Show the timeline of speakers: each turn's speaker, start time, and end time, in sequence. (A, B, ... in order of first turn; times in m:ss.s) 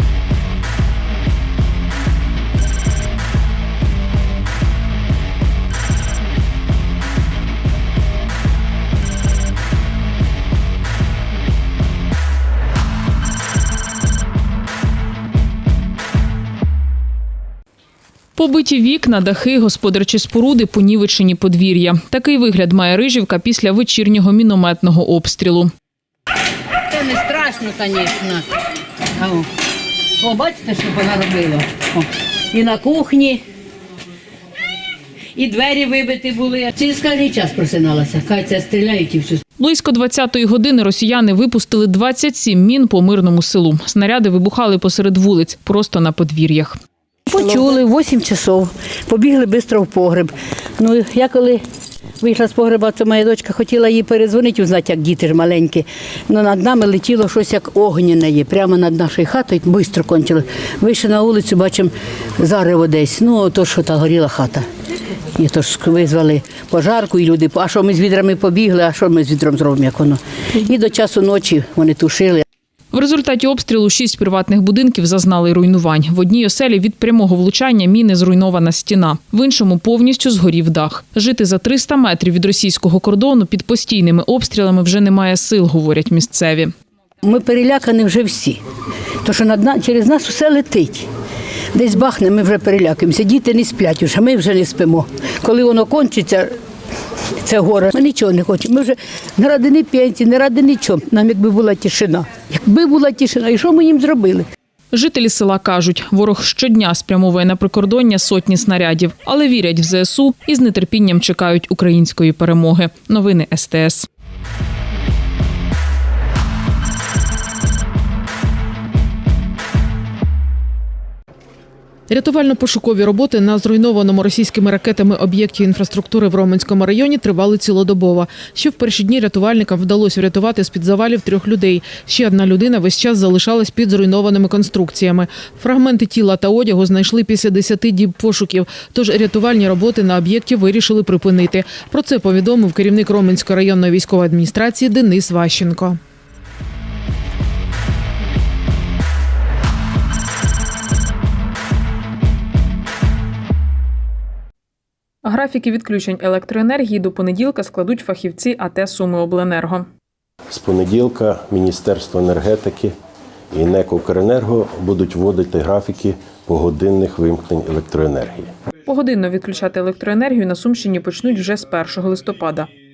0:18.4-0:25.7 A
0:26.9-0:28.5 B
0:29.2-0:29.5 B
0:30.2-0:33.4 B
0:35.4-0:39.4 B
0:39.6-0:46.8 A
0:47.3-0:51.6 B
0:52.2-1:04.6 B
1:05.4-1:12.4 B
1:12.9-1:26.7 A
1:27.2-1:28.6 B
1:29.2-1:31.1 B
1:31.7-1:36.5 B
1:37.4-1:44.4 B
1:44.9-1:54.1 A
2:02.1-2:26.0 C
2:35.2-2:39.9 A
2:40.5-2:42.9 D
2:43.5-2:48.5 D
2:48.9-2:52.7 A